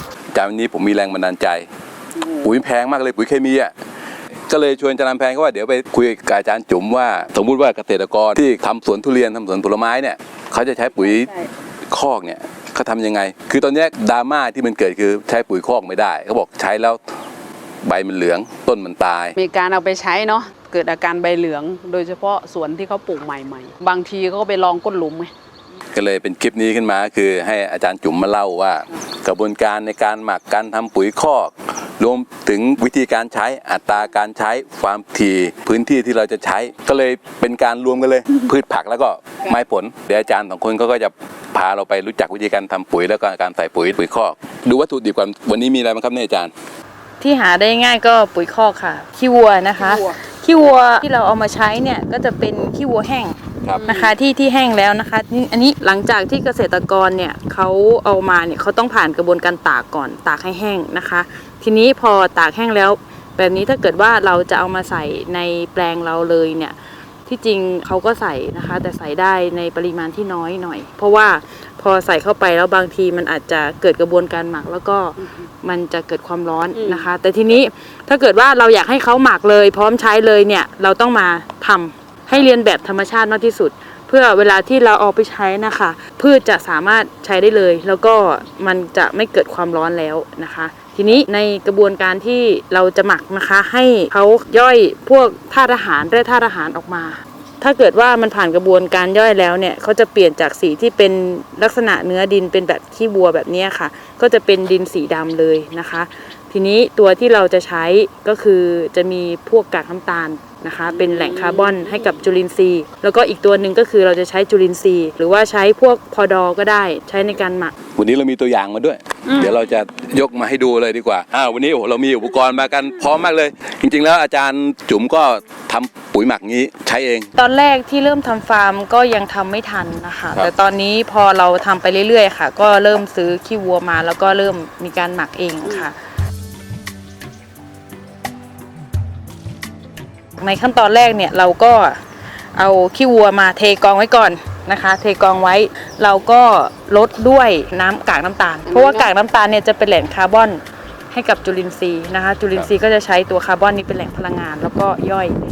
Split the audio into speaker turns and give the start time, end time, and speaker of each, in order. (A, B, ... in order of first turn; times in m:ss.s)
0:00.3-0:01.7 A
0:02.2-0:02.5 B
0:02.4-0:03.7 A
0:04.5-0:11.3 A
0:11.1-0:11.5 B
0:11.9-0:17.1 A
0:17.8-0:19.4 A
0:19.4-0:25.3 B
0:25.9-0:46.5 A
0:47.2-1:57.7 C
0:49.8-0:50.2 B
0:53.6-0:53.9 A
0:53.8-0:54.1 B
1:15.2-1:15.4 B
1:16.7-1:17.1 B
1:50.8-1:52.1 B
1:58.0-2:07.3 A
1:59.2-1:59.6 B
2:07.4-2:16.0 C
2:20.4-2:22.0 C
2:22.5-2:30.6 C
2:28.6-2:29.1 B
2:31.1-2:35.4 C